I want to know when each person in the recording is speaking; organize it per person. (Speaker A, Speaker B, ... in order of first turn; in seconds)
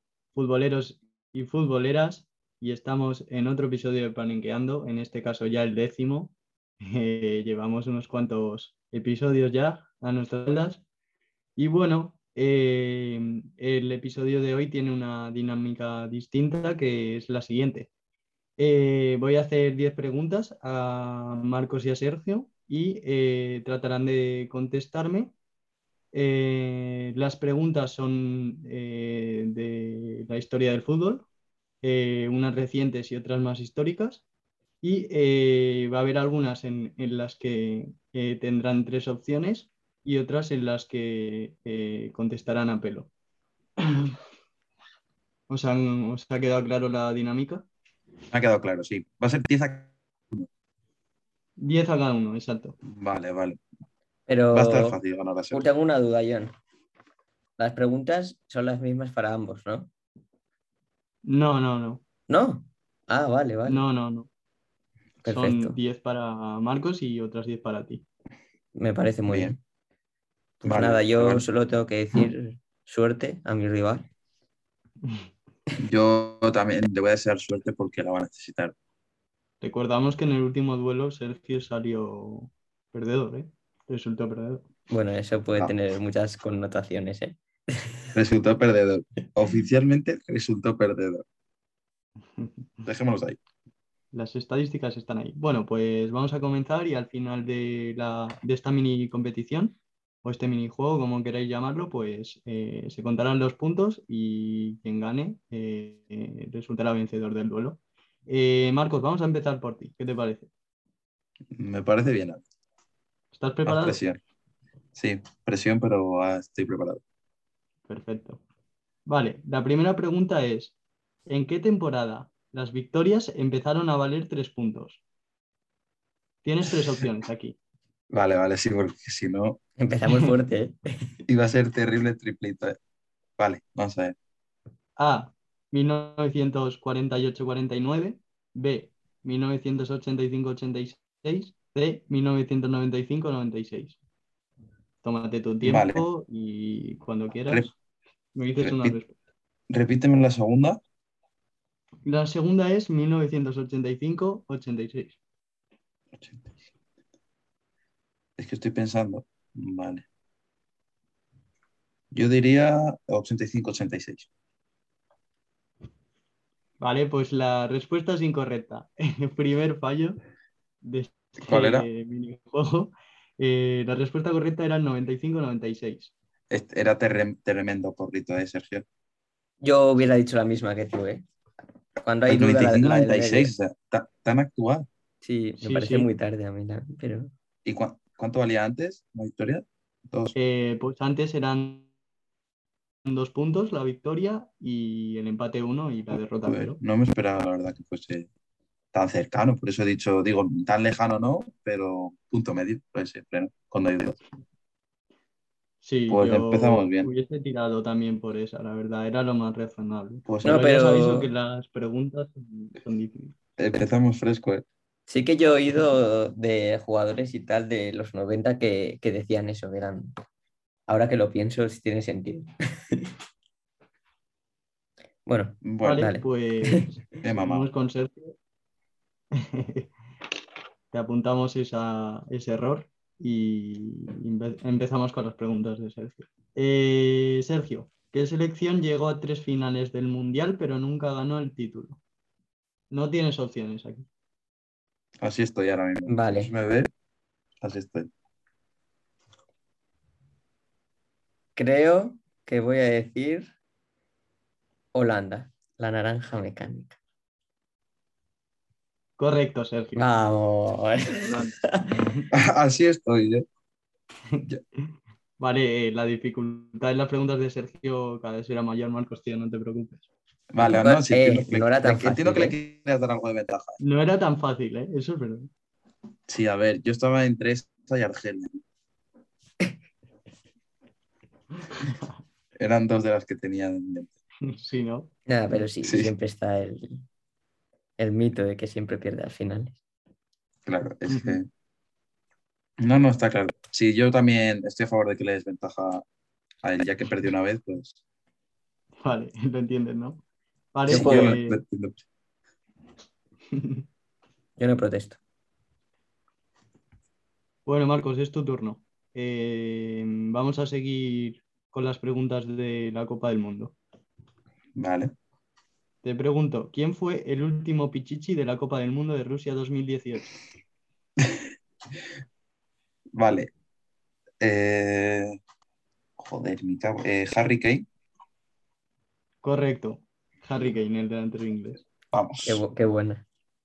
Speaker A: 0.3-10.8, 11.6-17.9, 18.6-25.3, 26.1-31.3, 31.8-34.2, 34.8-43.1, 43.8-44.2, 45.5-47.7, 51.6-52.8, 61.2-62.0, 63.7-64.3, 65.3-68.0, 79.6-84.7, 94.1-110.5, 113.3-114.0, 117.9-118.4, 119.1-120.8, 121.3-125.0, 126.4-127.6, 135.0-144.0, 145.0-147.7, 148.3-149.2, 152.1-155.2, 166.8-170.2, 170.8-176.1, 185.6-186.1, 190.3-191.9, 193.1-196.8, 205.8-213.3, 225.8-228.3, 229.3-229.9, 230.9-242.0, 242.9-244.1, 259.2-260.1, 261.2-262.3, 265.4-270.1, 273.8-275.5, 281.6-282.1, 284.4-285.1, 291.1-291.4, 299.0-300.2, 300.7-301.6, 303.5-303.8, 307.7-313.8, 316.0-320.3, 329.4-331.9
Speaker B: 48.3-50.5, 52.8-53.6, 54.5-55.7, 69.3-69.6, 70.6-71.5, 75.8-78.8, 88.2-91.2, 92.9-93.4, 111.5-112.4, 113.7-114.2, 115.0-117.0, 128.1-129.6, 131.3-132.8, 133.4-134.2, 145.6-146.1, 147.5-147.7, 148.6-149.0, 149.7-150.8, 156.2-156.6, 158.4-160.1, 162.1-164.3, 171.5-171.9, 176.5-178.8, 182.3-184.9, 187.7-190.3, 196.5-198.3, 198.9-204.2, 206.1-207.1, 210.3-210.6, 213.6-214.7, 225.6-226.1, 227.2-227.7, 245.2-246.9, 247.6-248.1, 262.3-263.4, 270.5-273.8, 276.3-278.6, 282.6-284.2, 285.8-286.1, 290.7-291.5, 292.8-296.1, 296.6-298.0, 300.9-302.0, 314.8-315.1, 323.1-323.5, 324.4-325.4, 326.2-327.9, 332.1-332.6
Speaker C: 54.3-55.0, 55.5-56.5, 57.6-59.9, 62.3-63.8, 65.2-65.8, 68.8-69.6, 70.6-74.1, 84.9-88.2, 129.8-131.2, 179.6-181.2, 182.0-183.5, 185.2-187.3, 210.4-211.3, 215.1-220.2, 220.9-223.1, 225.3-226.9, 246.1-246.5, 251.6-253.5, 254.9-257.0, 260.0-262.0, 270.6-272.6, 285.3-287.1, 288.0-289.8, 300.9-301.4, 304.6-305.2, 332.4-333.2